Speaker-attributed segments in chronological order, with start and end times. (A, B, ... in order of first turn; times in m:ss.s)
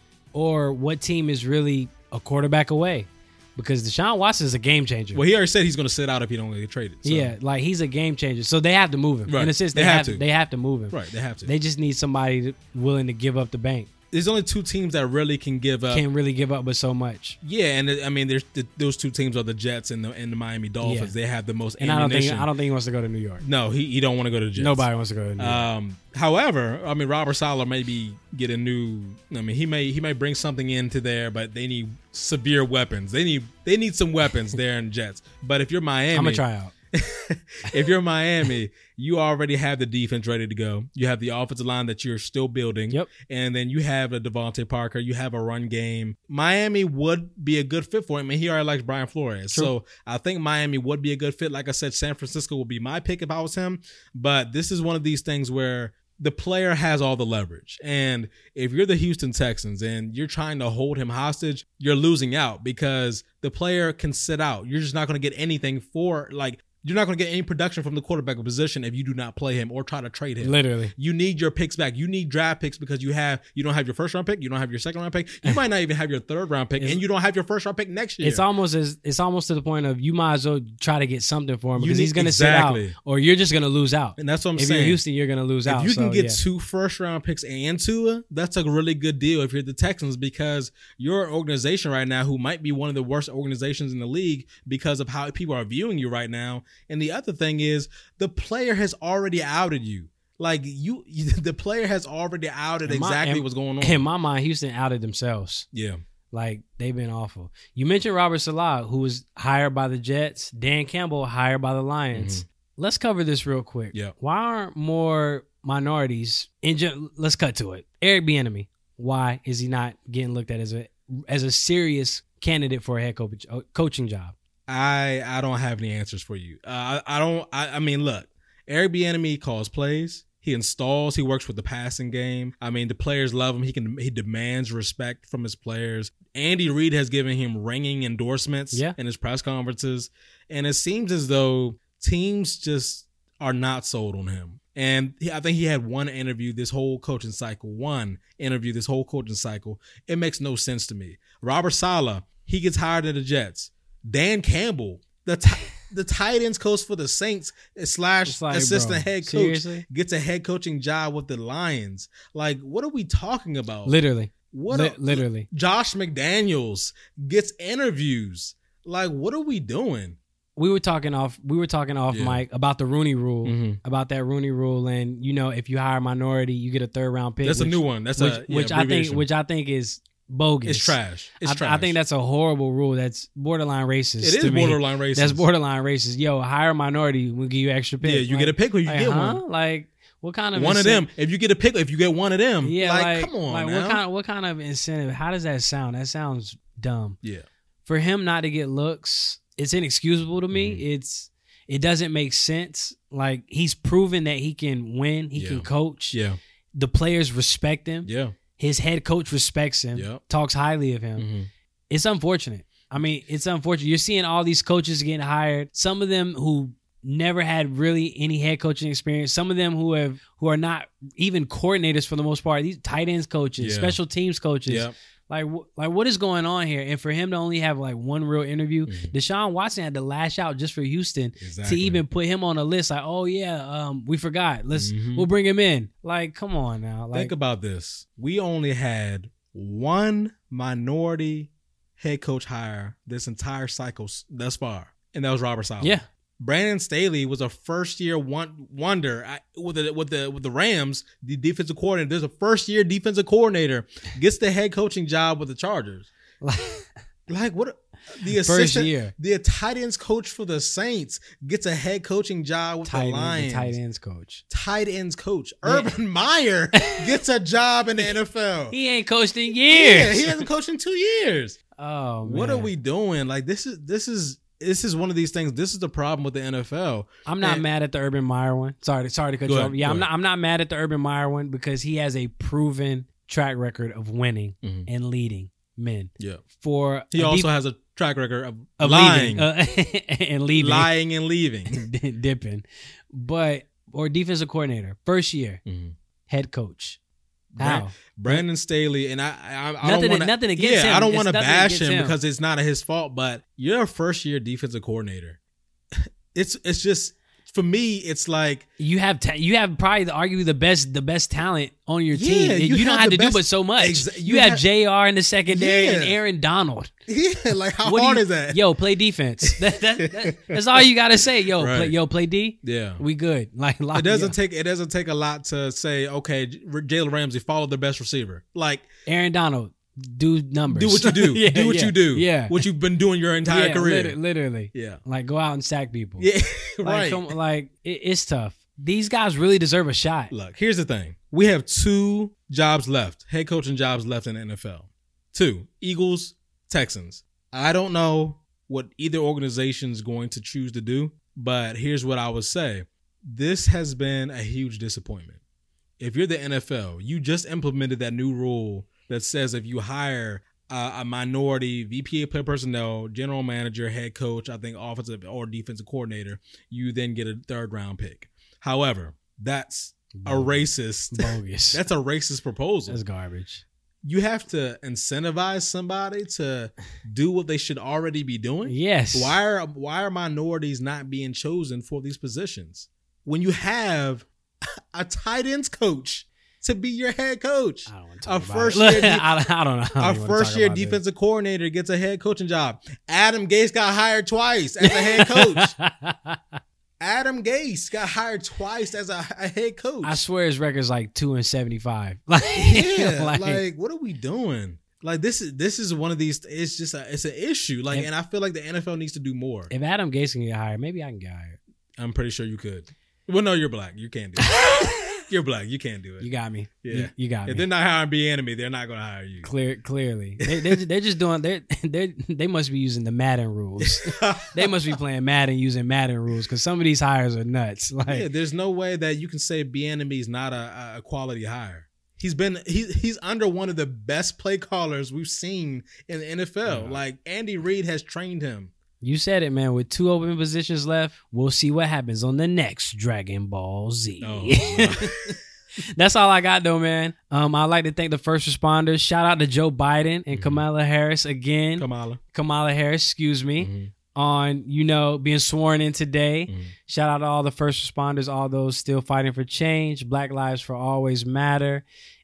0:00.3-0:05.2 A
0:05.1-0:07.3 B
0:07.0-0:13.9 A
0:09.3-0:10.2 B
0:10.9-0:11.5 B
0:14.1-0:16.0 B
0:15.9-0:17.4 A
0:17.4-0:22.5 B
0:20.8-0:21.1 A
0:21.8-0:23.4 A
0:23.4-1:18.4 B
0:24.6-0:25.6 A
0:36.1-0:36.7 A
1:10.4-1:10.9 A
1:18.2-1:26.4 A
1:21.8-1:22.9 B
1:24.2-1:25.0 B
1:25.6-1:44.0 B
1:42.9-1:45.6 A
1:45.7-1:46.0 B
1:46.3-2:04.3 A
1:52.1-1:52.4 B
2:04.7-2:44.0 B
2:38.2-2:39.8 A
2:43.9-2:45.5 A
2:44.5-2:50.2 B
2:50.6-3:11.1 A
2:52.1-2:52.4 B
2:53.4-2:53.8 B
2:57.4-2:59.2 B
3:00.6-3:01.9 B
3:04.2-3:05.4 B
3:08.0-3:09.4 B
3:10.5-3:14.0 B
3:12.6-3:17.2 A
3:17.8-3:26.2 A
3:20.5-3:20.8 B
3:25.3-3:26.4 B
3:26.7-3:31.3 A
3:28.0-3:28.4 B
3:30.0-3:30.2 B
3:31.2-3:31.5 B
3:31.9-3:57.3 A
3:43.6-3:44.0 B
3:44.7-3:44.9 B
3:48.9-3:49.1 B
3:51.4-3:52.0 B
3:54.7-3:55.3 B
3:57.1-4:16.1 B
4:16.4-4:16.9 A
4:17.3-4:23.8 B
4:18.3-4:19.1 A
4:22.9-4:24.4 A
4:24.5-4:28.8 B
4:25.6-4:25.9 A
4:28.7-4:30.5 A
4:29.7-4:31.6 B
4:31.8-4:32.7 A
4:32.2-4:37.6 B
4:37.2-4:47.5 A
4:39.4-4:40.1 B
4:44.6-4:44.9 B
4:47.1-4:49.4 B
4:48.8-4:50.9 A
4:50.6-4:51.9 B
4:51.7-4:55.6 A
4:55.6-4:55.9 B
4:56.3-4:57.0 A
4:57.5-5:05.4 B
4:57.6-4:58.4 A
4:59.8-5:02.2 A
5:05.9-5:08.6 B
5:08.8-5:16.9 A
5:12.1-5:14.6 B
5:15.5-5:16.2 B
5:17.1-5:18.6 B
5:17.8-5:24.4 A
5:19.4-5:20.6 B
5:21.6-5:21.9 B
5:22.6-5:23.0 B
5:23.9-5:28.9 B
5:29.0-5:32.6 A
5:30.7-5:34.2 B
5:33.5-5:36.3 A
5:34.7-5:35.0 B
5:36.2-5:37.3 B
5:36.8-5:40.3 A
5:40.3-5:55.4 B
5:56.0-6:13.0 B
6:10.1-6:11.8 A
6:12.9-6:13.6 A
6:14.0-6:24.3 B
6:18.6-6:19.4 A
6:24.9-6:29.3 B
6:27.9-6:31.0 A
6:30.0-6:35.7 B
6:34.8-6:36.6 A
6:37.0-6:40.2 B
6:40.0-6:43.6 A
6:42.6-6:49.7 B
6:49.7-6:51.6 A
6:52.0-6:56.3 B
6:54.4-6:55.2 A
6:56.2-6:57.6 A
6:56.8-6:59.5 B
6:59.4-7:08.2 A
7:00.4-7:00.8 B
7:03.8-7:05.0 B
7:08.1-7:18.7 B
7:16.6-7:17.0 A
7:19.0-7:25.4 A
7:24.2-7:25.3 B
7:25.9-7:41.8 A
7:30.3-7:30.6 B
7:31.8-7:32.2 B
7:33.6-7:33.9 B